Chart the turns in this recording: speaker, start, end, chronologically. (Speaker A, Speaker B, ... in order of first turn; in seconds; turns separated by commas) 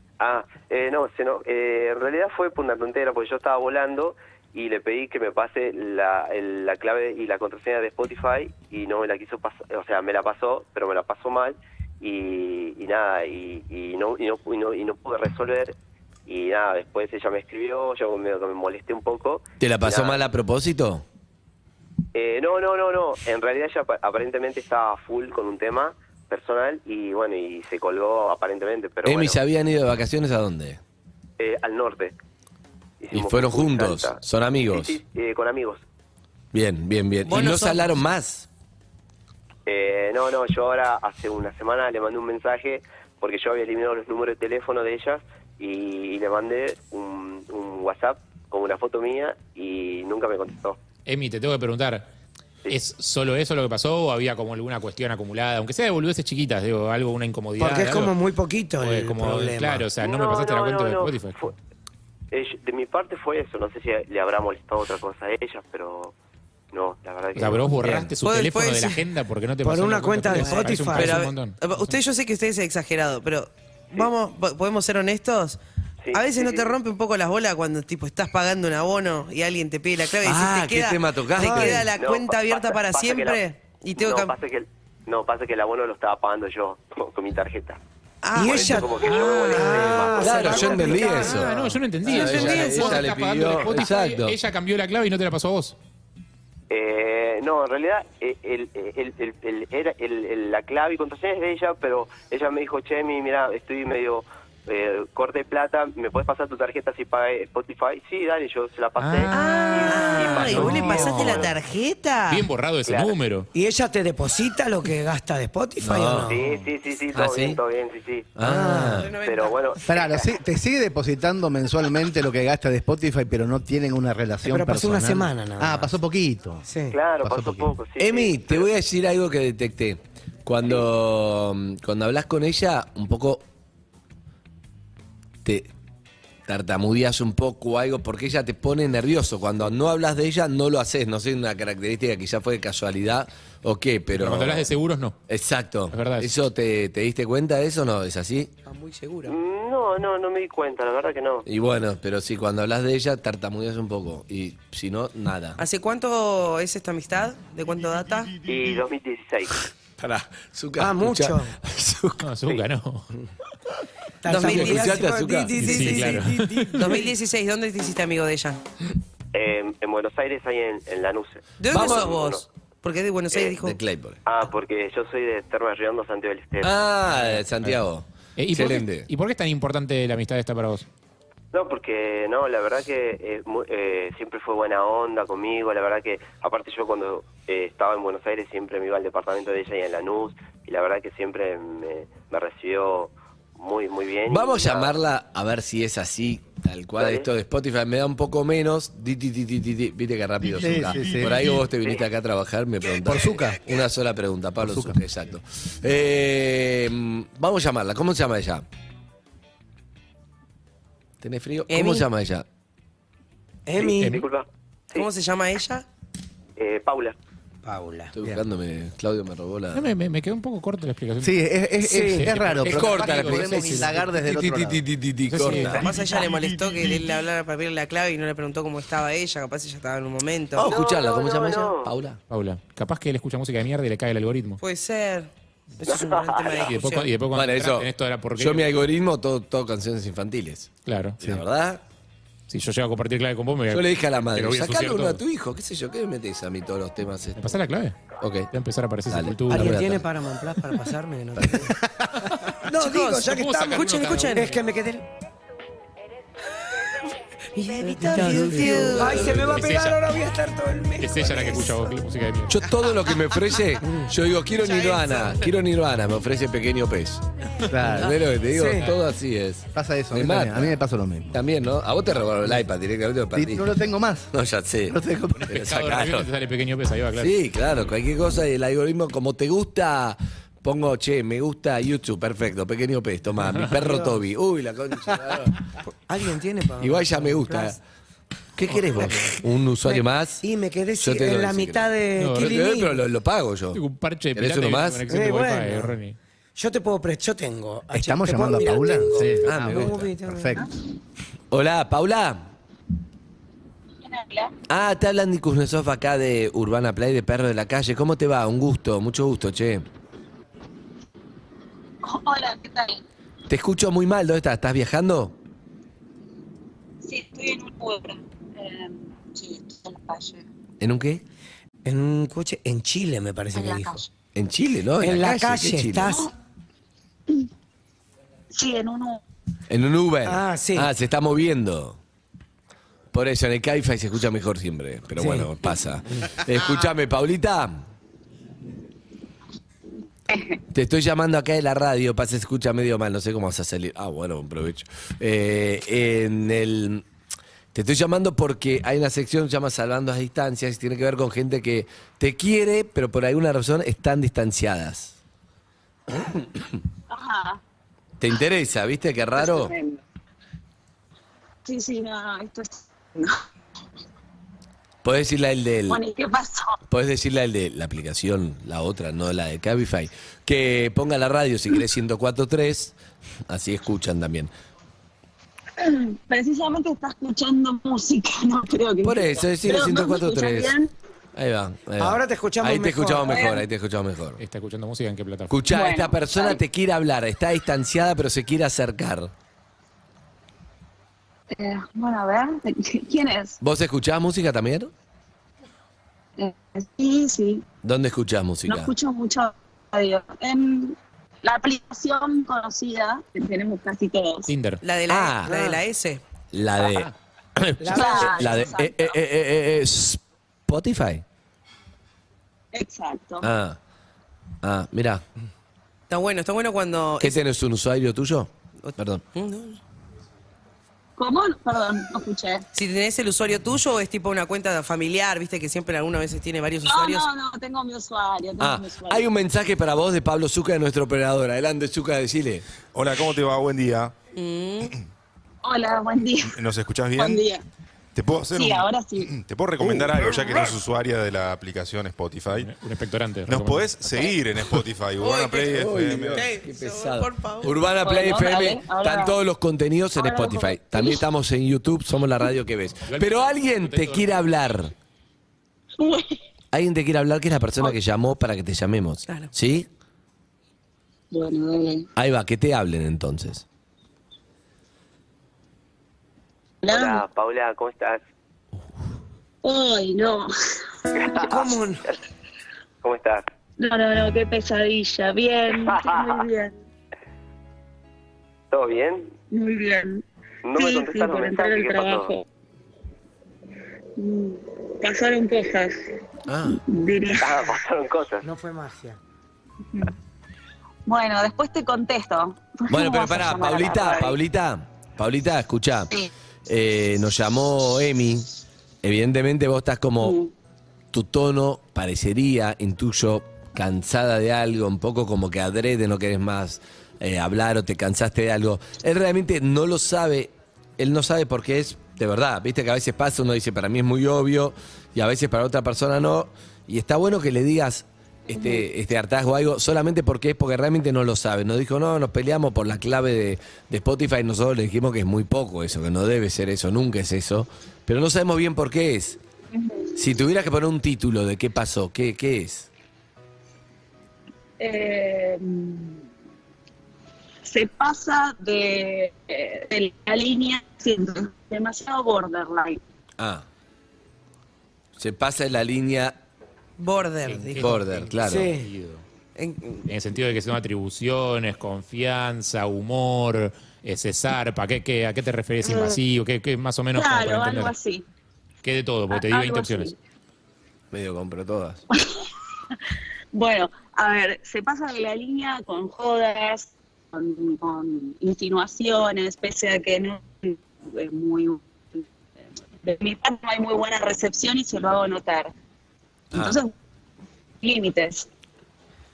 Speaker A: 0.2-15.8, Speaker A: 16.3-20.2, Speaker B: 19.6-21.1, Speaker A: 22.1-29.4, Speaker B: 29.1-30.8, Speaker A: 31.4-32.1, Speaker A: 33.0-35.8, Speaker B: 33.1-35.0, Speaker B: 36.5-38.5, Speaker C: 37.2-37.9, Speaker A: 39.7-50.8, Speaker D: 51.1-52.1, Speaker D: 52.7-58.1, Speaker E: 57.6-59.9, Speaker D: 58.8-61.4, Speaker A: 60.0-61.5, Speaker A: 62.3-66.1, Speaker A: 66.7-67.7, Speaker D: 67.4-72.0, Speaker B: 67.8-68.2, Speaker C: 68.2-69.0, Speaker E: 69.6-71.3, Speaker C: 70.9-75.6, Speaker A: 76.0-76.8, Speaker C: 76.1-84.3, Speaker B: 80.2-81.9, Speaker E: 81.4-81.8, Speaker A: 81.9-83.4, Speaker A: 84.0-87.8, Speaker C: 88.2-88.9, Speaker A: 88.4-91.0, Speaker E: 88.4-91.5, Speaker D: 89.0-95.8, Speaker B: 90.0-94.4, Speaker C: 91.1-91.4, Speaker C: 92.0-93.1, Speaker A: 96.7-111.6, Speaker D: 109.0-111.5, Speaker C: 109.3-112.5, Speaker D: 112.3-113.5, Speaker A: 112.8-113.2, Speaker E: 113.5-116.4, Speaker B: 115.8-116.3, Speaker A: 116.3-118.3, Speaker B: 117.1-117.6, Speaker B: 118.4-119.1, Speaker E: 118.4-119.0, Speaker C: 119.0-119.9, Speaker A: 119.2-120.3, Speaker F: 119.9-126.7, Speaker E: 124.5-125.9, Speaker E: 126.7-127.0, Speaker A: 126.9-128.7, Speaker F: 127.2-127.7, Speaker B: 128.0-133.4, Speaker B: 135.4-135.7, Speaker B: 136.5-144.7, Speaker D: 144.1-145.2, Speaker B: 145.3-148.5, Speaker D: 145.9-146.3, Speaker C: 148.7-149.4, Speaker A: 149.2-151.4, Speaker B: 151.5-155.6, Speaker C: 155.6-158.4, Speaker A: 158.4-159.6, Speaker B: 160.0-162.3, Speaker E: 160.8-161.6, Speaker D: 162.2-163.1, Speaker E: 164.2-167.0, Speaker C: 164.3-165.1, Speaker B: 164.4-166.0, Speaker C: 165.6-166.0, Speaker D: 165.6-166.9, Speaker C: 166.8-168.6, Speaker A: 169.3-172.4, Speaker C: 171.6-173.8, Speaker B: 171.7-172.2, Speaker B: 173.7-174.2, Speaker A: 174.2-176.8, Speaker B: 176.6-179.1, Speaker D: 177.2-177.7, Speaker D: 178.4-180.9, Speaker A: 181.5-195.0, Speaker B: 194.3-208.7, Speaker A: 197.0-197.3, Speaker F: 200.6-201.6, Speaker A: 201.8-202.1, Speaker F: 203.0-203.6, Speaker F: 204.6-205.0, Speaker B: 211.2-212.5, Speaker C: 211.7-212.1, Speaker E: 213.7-214.2, Speaker A: 213.8-215.1, Speaker D: 214.0-214.2, Speaker C: 214.9-215.9, Speaker A: 216.6-217.2, Speaker E: 217.6-218.1, Speaker B: 218.1-219.9, Speaker D: 219.7-221.4, Speaker F: 221.2-224.8, Speaker E: 221.9-222.3, Speaker D: 222.0-224.1, Speaker B: 222.7-226.0, Speaker C: 225.3-230.7, Speaker D: 225.4-225.8, Speaker B: 230.6-232.2, Speaker A: 230.6-231.9, Speaker D: 232.3-234.6, Speaker C: 234.6-235.3, Speaker C: 235.8-237.1, Speaker A: 235.8-236.7, Speaker D: 236.7-238.7, Speaker B: 237.3-241.8, Speaker D: 240.8-241.2, Speaker D: 242.5-245.2, Speaker B: 243.7-247.6, Speaker D: 247.4-249.9, Speaker B: 248.2-248.5, Speaker B: 249.1-250.1, Speaker E: 249.5-251.8, Speaker B: 251.4-251.7, Speaker E: 252.6-255.1, Speaker C: 252.7-254.6, Speaker D: 253.2-254.6, Speaker C: 257.6-259.3, Speaker E: 257.7-261.9, Speaker F: 258.1-259.4, Speaker B: 259.3-259.5, Speaker D: 259.4-260.0, Speaker D: 261.0-262.6, Speaker B: 262.5-267.2, Speaker E: 263.8-264.1, Speaker F: 267.7-268.1, Speaker B: 267.9-270.8, Speaker E: 268.5-268.9, Speaker F: 269.7-271.4, Speaker B: 271.3-273.7, Speaker F: 273.3-274.3, Speaker B: 274.3-276.3, Speaker F: 274.9-275.5, Speaker D: 275.4-277.8, Speaker B: 277.1-285.6, Speaker E: 286.1-287.8, Speaker B: 286.8-287.8, Speaker B: 288.6-290.4, Speaker E: 289.8-293.0, Speaker B: 291.0-293.8, Speaker D: 292.2-292.7, Speaker D: 293.7-296.2, Speaker B: 294.3-295.1, Speaker E: 295.1-295.9, Speaker E: 296.6-300.6, Speaker F: 297.9-300.6, Speaker B: 299.4-300.1, Speaker B: 301.5-302.5, Speaker G: 304.0-304.6, Speaker B: 304.7-309.9, Speaker G: 312.0-313.0, Speaker B: 313.5-315.4, Speaker G: 317.0-320.4, Speaker B: 320.8-321.2, Speaker E: 321.9-324.1, Speaker G: 323.5-324.1, Speaker B: 324.4-326.2, Speaker E: 325.0-326.3, Speaker G: 328.5-329.2, Speaker B: 329.7-332.0, Speaker E: 330.3-330.9, Speaker B: 333.1-337.8, Speaker E: 335.2-335.5, Speaker G: 340.3-340.6, Speaker B: 340.7-347.1, Speaker B: 347.7-355.1, Speaker G: 357.1-357.6, Speaker B: 358.2-359.8, Speaker G: 359.4-360.0, Speaker G: 361.6-363.4, Speaker B: 365.0-366.0, Speaker G: 365.9-366.8, Speaker B: 366.9-373.0, Speaker B: 373.5-374.5, Speaker G: 375.8-380.9, Speaker B: 379.0-380.8, Speaker B: 381.4-384.4, Speaker E: 382.0-383.5, Speaker G: 383.3-383.6, Speaker D: 384.4-385.6, Speaker B: 385.5-389.3, Speaker G: 385.7-386.6, Speaker G: 391.5-393.6, Speaker B: 393.6-394.9, Speaker G: 396.4-397.6, Speaker B: 397.8-398.9, Speaker G: 398.7-404.5, Speaker D: 404.5-404.8, Speaker C: 404.8-406.2, Speaker B: 405.1-405.5, Speaker E: 405.5-405.8, Speaker B: 406.5-411.2, Speaker E: 407.8-408.7, Speaker G: 407.9-408.9, Speaker G: 412.7-413.5, Speaker B: 413.4-413.8, Speaker B: 414.6-415.2, Speaker C: 416.1-417.4, Speaker B: 417.2-419.2, Speaker C: 418.8-419.8, Speaker G: 421.2-422.6, Speaker C: 422.7-427.3, Speaker G: 426.9-429.3, Speaker B: 428.6-432.6, Speaker H: 432.9-434.1, Speaker C: 434.3-435.0, Speaker G: 435.6-436.6, Speaker H: 436.5-437.4, Speaker G: 437.2-437.6, Speaker H: 438.1-442.7, Speaker G: 438.5-439.3, Speaker G: 440.2-440.5, Speaker D: 442.6-444.3, Speaker H: 443.5-446.5, Speaker C: 445.2-447.8, Speaker B: 445.7-454.9, Speaker G: 448.0-449.4, Speaker G: 450.1-451.2, Speaker D: 453.1-454.5, Speaker G: 456.0-456.4, Speaker B: 456.7-459.9, Speaker G: 461.3-462.1, Speaker B: 462.2-463.6, Speaker G: 466.8-467.2, Speaker A: 466.9-468.2, Speaker G: 469.6-470.5, Speaker A: 471.2-471.7, Speaker E: 471.4-472.0, Speaker A: 473.0-473.4, Speaker G: 473.8-476.7, Speaker A: 475.8-476.4, Speaker A: 478.7-479.3, Speaker G: 479.5-480.2, Speaker A: 480.6-482.3, Speaker G: 480.8-482.4, Speaker G: 484.2-486.0, Speaker B: 486.5-486.8, Speaker G: 486.7-487.7, Speaker A: 487.4-488.5, Speaker E: 488.4-489.2, Speaker G: 491.1-494.4, Speaker B: 492.9-496.1, Speaker B: 496.7-498.5, Speaker B: 499.0-500.4, Speaker G: 500.2-500.5, Speaker B: 501.1-529.4, Speaker G: 529.7-530.2, Speaker B: 530.2-532.9, Speaker G: 534.8-536.2, Speaker G: 537.6-543.0, Speaker B: 543.4-543.6, Speaker B: 545.2-546.4, Speaker C: 547.0-547.9, Speaker D: 547.5-549.2, Speaker B: 547.8-548.7, Speaker E: 548.5-548.9, Speaker C: 549.6-550.1, Speaker D: 550.1-558.0, Speaker G: 555.8-556.2, Speaker G: 557.1-558.2, Speaker D: 558.8-560.1, Speaker G: 559.3-560.1, Speaker B: 561.1-562.0, Speaker G: 562.1-562.5, Speaker G: 563.5-572.3, Speaker G: 573.0-575.7, Speaker B: 576.5-576.8, Speaker G: 576.5-576.9, Speaker G: 577.8-578.5